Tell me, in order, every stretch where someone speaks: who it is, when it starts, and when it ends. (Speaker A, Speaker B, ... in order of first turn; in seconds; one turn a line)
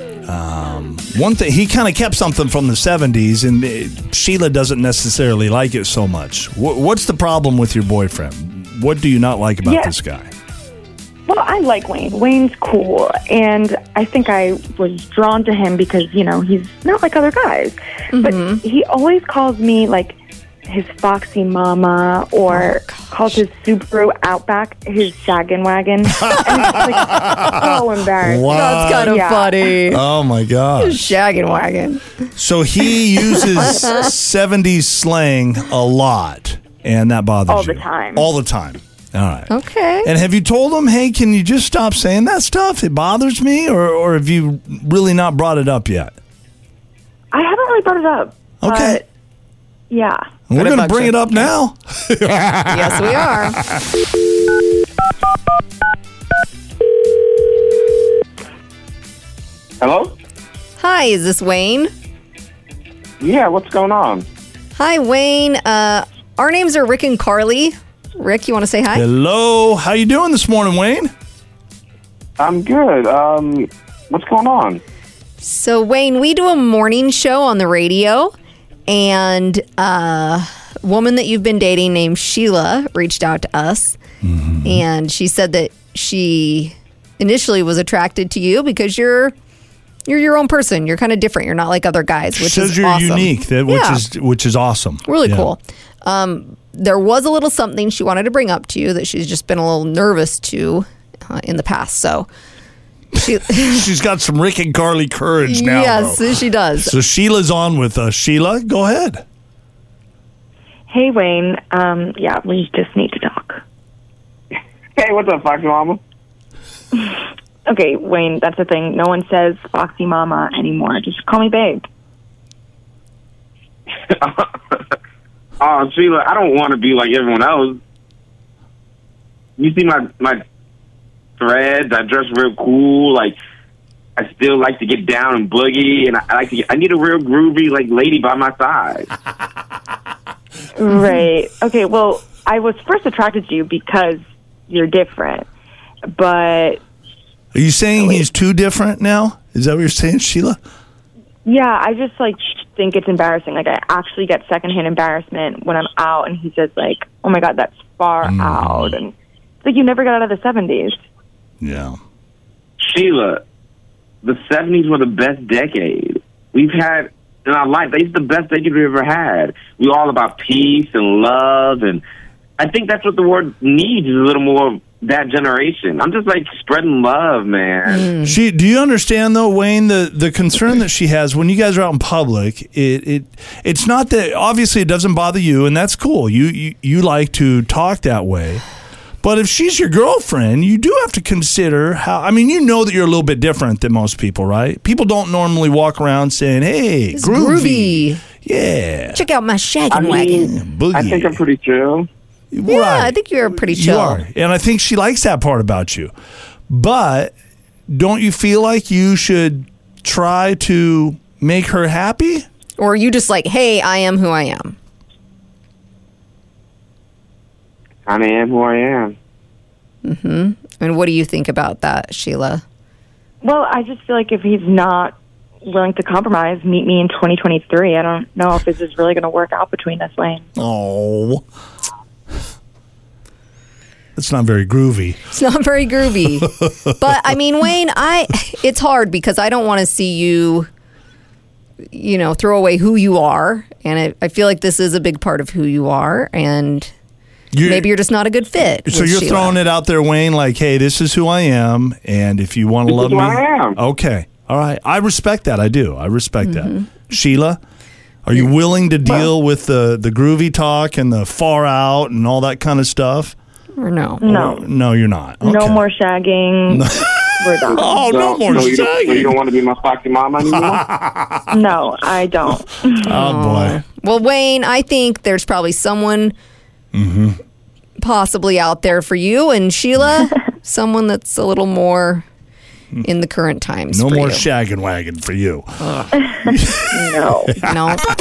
Speaker A: 0.3-10.3
Speaker B: 9.6-9.9
Speaker B: 11.3-29.7
Speaker C: 18.1-18.6
Speaker C: 22.5-23.4
Speaker A: 26.5-27.6
Speaker A: 28.2-29.1
Speaker C: 28.5-30.0
Speaker A: 29.9-31.2
Speaker C: 30.8-32.1
Speaker A: 32.4-39.5
Speaker C: 33.3-34.0
Speaker B: 37.5-38.3
Speaker C: 39.5-40.1
Speaker A: 40.0-46.1
Speaker B: 47.3-49.0
Speaker A: 48.6-49.0
Speaker B: 49.9-50.2
Speaker A: 50.5-53.8
Speaker C: 50.5-51.5
Speaker C: 52.7-53.6
Speaker D: 59.8-60.1
Speaker C: 60.8-61.9
Speaker D: 63.2-64.2
Speaker C: 64.8-69.0
Speaker A: 68.9-71.1
Speaker D: 72.4-74.8
Speaker C: 75.4-78.3
Speaker C: 78.9-84.0
Speaker A: 84.2-84.8
Speaker C: 84.6-89.3
Speaker C: 90.1-94.0
Speaker A: 92.3-95.5
Speaker C: 95.0-102.3
Speaker C: 103.1-103.8
Speaker A: 103.1-109.2
Speaker C: 105.4-106.9
Speaker B: 110.9-113.6
Speaker D: 115.0-116.0
Speaker B: 117.0-121.9
Speaker D: 124.1-124.8
Speaker D: 125.6-127.8
Speaker D: 129.6-130.4
Speaker D: 131.4-133.3
Speaker D: 134.2-139.1
Speaker B: 140.7-145.5
Speaker B: 146.1-146.8
Speaker A: 147.5-150.6
Speaker B: 151.4-161.0
Speaker A: 158.2-159.0
Speaker A: 161.6-162.0
Speaker D: 162.8-163.4
Speaker D: 164.2-172.0
Speaker D: 172.6-178.1
Speaker C: 177.9-178.3
Speaker A: 178.2-188.6
Speaker A: 189.2-199.2
Speaker C: 197.1-198.2
Speaker C: 199.1-200.5
Speaker D: 199.9-202.1
Speaker A: 200.4-201.4
Speaker A: 202.5-206.1
Speaker C: 202.6-204.2
Speaker A: 206.7-207.3
Speaker A: 207.9-212.4
Speaker C: 212.8-214.8
Speaker D: 218.1-219.1
Speaker C: 220.0-222.6
Speaker B: 223.4-230.5
Speaker A: 230.6-231.4
Speaker A: 234.2-235.2
Speaker C: 235.3-240.7
Speaker C: 241.9-246.9
Speaker A: 247.5-247.9
Speaker C: 247.6-249.6
Speaker A: 248.8-257.6
Speaker D: 252.9-253.8
Speaker C: 256.4-256.9
Speaker A: 258.2-263.3
Speaker C: 263.8-264.2
Speaker B: 264.2-264.7
Speaker A: 264.2-265.8
Speaker B: 265.4-268.2
Speaker A: 266.7-269.4
Speaker D: 268.1-270.8
Speaker A: 270.4-271.5
Speaker B: 271.5-273.1
Speaker A: 273.0-273.8
Speaker C: 273.1-276.3
Speaker A: 276.9-277.4
Speaker C: 278.0-282.2
Speaker C: 283.0-284.4
Speaker A: 283.9-287.7
Speaker B: 286.9-287.6
Speaker C: 287.6-288.1